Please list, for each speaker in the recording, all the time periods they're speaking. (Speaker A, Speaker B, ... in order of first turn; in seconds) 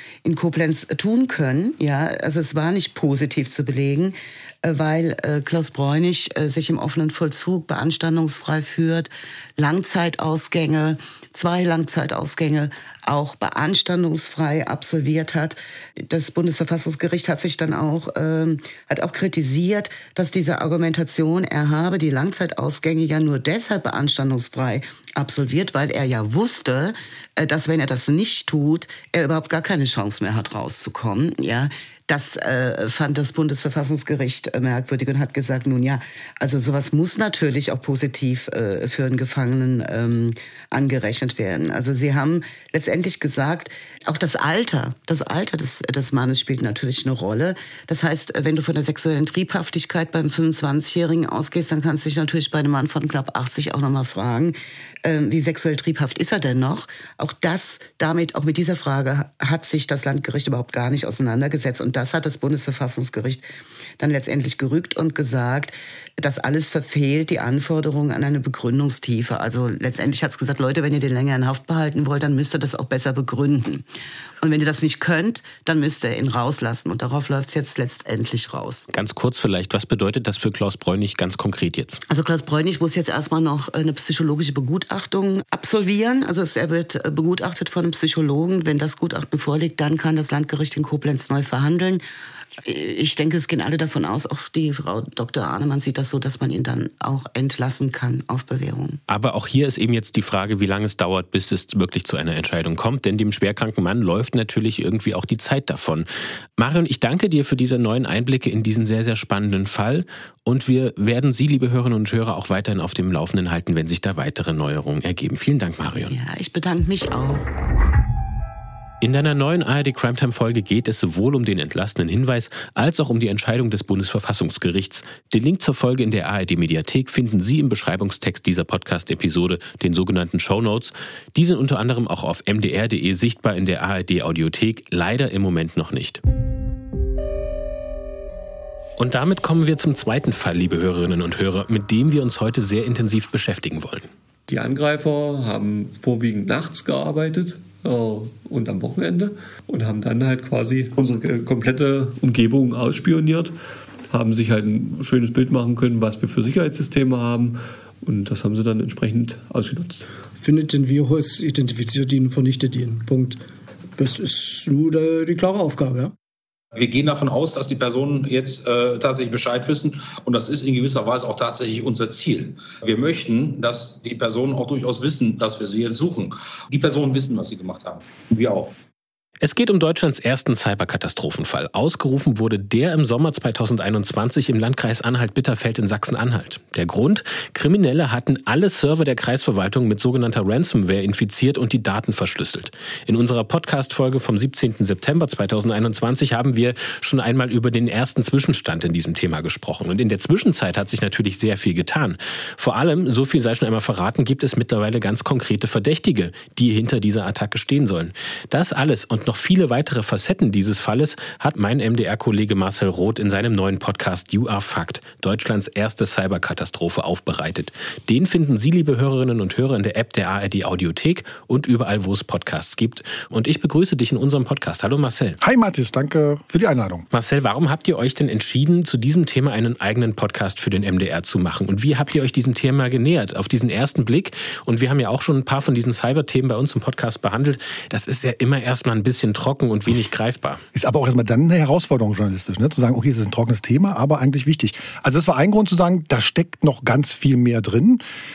Speaker A: 0.2-63.5, 64.0-73.8, 74.4-78.9, 82.1-92.0, 92.6-99.0, 116.1-117.5
Speaker B: 78.9-82.0, 99.1-116.2, 119.0-136.2, 139.0-144.1, 179.4-225.4, 227.1-240.6
Speaker C: 144.5-153.6, 154.1-160.1
Speaker D: 160.4-163.4, 164.0-166.1
Speaker E: 166.8-178.7
Speaker F: 225.4-227.1, 240.7-248.0